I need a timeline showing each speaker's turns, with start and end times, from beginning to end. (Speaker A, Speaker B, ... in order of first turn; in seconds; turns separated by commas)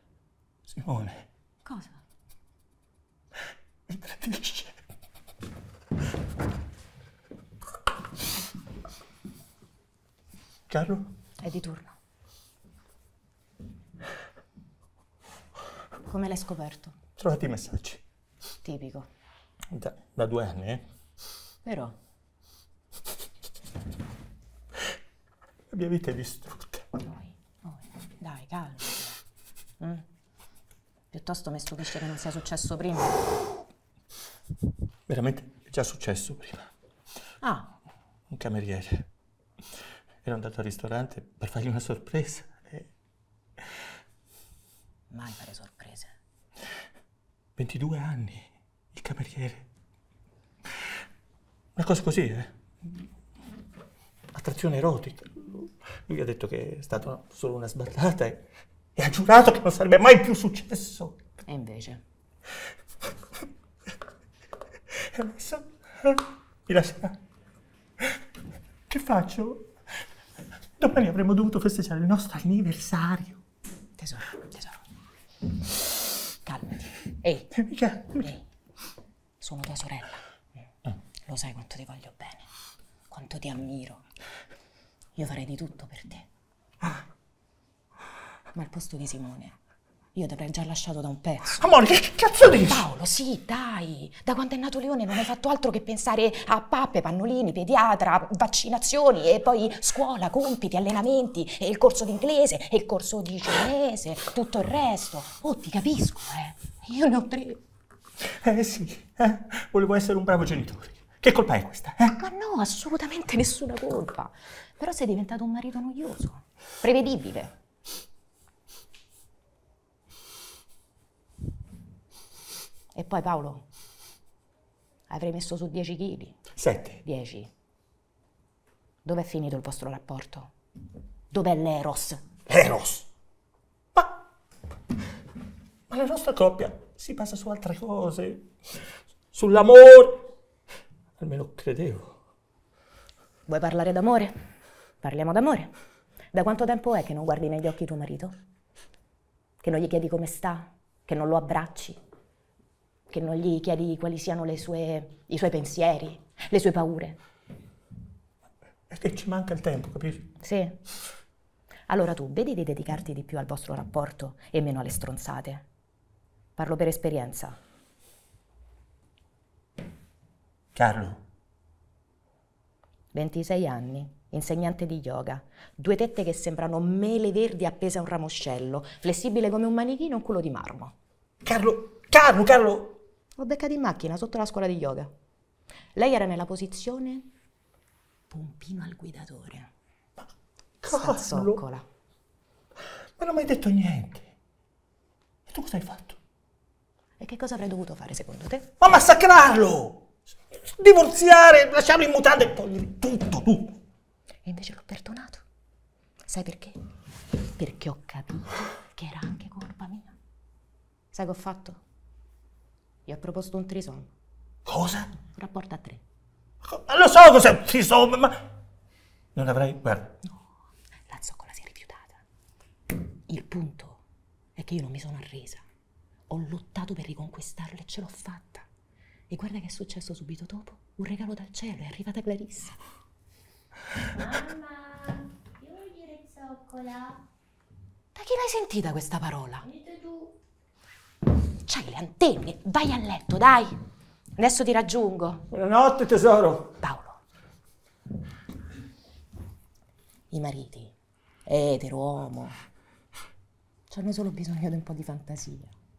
Speaker A: 0.7-1.2, Speaker B: 1.6-2.0, Speaker A: 3.9-4.8, Speaker A: 10.7-11.1, Speaker B: 11.4-12.0, Speaker B: 16.1-17.0, Speaker A: 17.2-18.0, Speaker B: 18.6-19.1, Speaker A: 19.7-20.9, Speaker B: 21.6-22.0, Speaker A: 25.7-26.9, Speaker B: 27.0-29.2, Speaker B: 29.8-30.1, Speaker B: 31.1-33.3, Speaker A: 35.1-36.7, Speaker B: 37.4-37.7, Speaker A: 38.3-39.1, Speaker A: 40.2-42.9, Speaker B: 45.1-46.1, Speaker A: 47.6-49.7, Speaker A: 51.8-52.5, Speaker A: 54.3-58.4, Speaker A: 59.0-61.2, Speaker B: 61.5-62.0, Speaker A: 64.9-67.2, Speaker A: 68.9-69.7, Speaker A: 70.8-73.4, Speaker B: 74.0-74.8, Speaker B: 76.4-77.6, Speaker A: 77.5-78.3, Speaker B: 78.1-78.4, Speaker B: 79.4-80.3, Speaker B: 81.2-82.5, Speaker B: 83.1-84.0, Speaker B: 85.2-86.3, Speaker B: 88.5-89.6, Speaker B: 90.2-91.7, Speaker A: 91.5-92.9, Speaker B: 92.5-107.6, Speaker A: 108.2-112.2, Speaker B: 112.2-117.5, Speaker B: 122.9-123.7, Speaker B: 125.1-126.4, Speaker A: 126.6-127.0, Speaker B: 127.0-127.5, Speaker B: 129.0-130.5, Speaker B: 131.3-132.2, Speaker A: 132.5-133.1, Speaker A: 135.9-138.5, Speaker A: 139.3-140.3, Speaker A: 141.2-142.2, Speaker B: 143.5-144.3, Speaker B: 145.0-145.7, Speaker B: 146.3-148.3, Speaker B: 149.6-152.0, Speaker B: 153.1-157.2, Speaker A: 158.9-160.3, Speaker B: 160.4-160.8, Speaker B: 161.9-165.7, Speaker B: 166.6-167.6, Speaker A: 170.8-171.2, Speaker B: 173.1-180.9, Speaker A: 181.4-183.0, Speaker B: 183.4-185.1, Speaker B: 185.9-187.3, Speaker B: 188.3-189.7, Speaker A: 190.8-191.6, Speaker B: 190.9-191.9, Speaker A: 193.2-194.3, Speaker A: 195.5-196.2, Speaker B: 197.2-198.7, Speaker A: 198.8-203.8, Speaker B: 204.4-205.4, Speaker B: 206.3-206.8, Speaker B: 207.6-210.2, Speaker B: 211.1-211.8, Speaker B: 213.1-214.1, Speaker A: 214.7-215.1, Speaker B: 215.3-216.0, Speaker A: 216.6-218.5, Speaker A: 219.3-220.2, Speaker B: 221.1-222.2, Speaker B: 223.3-224.0, Speaker B: 224.6-225.6, Speaker B: 226.3-228.7, Speaker B: 229.3-232.8, Speaker B: 234.2-234.5, Speaker C: 234.4-237.2, Speaker B: 238.2-239.8, Speaker C: 239.8-240.3, Speaker B: 241.7-243.8, Speaker B: 244.4-245.5, Speaker A: 245.5-246.8, Speaker B: 246.8-247.2, Speaker B: 250.3-250.9, Speaker B: 251.5-252.6, Speaker B: 253.9-255.7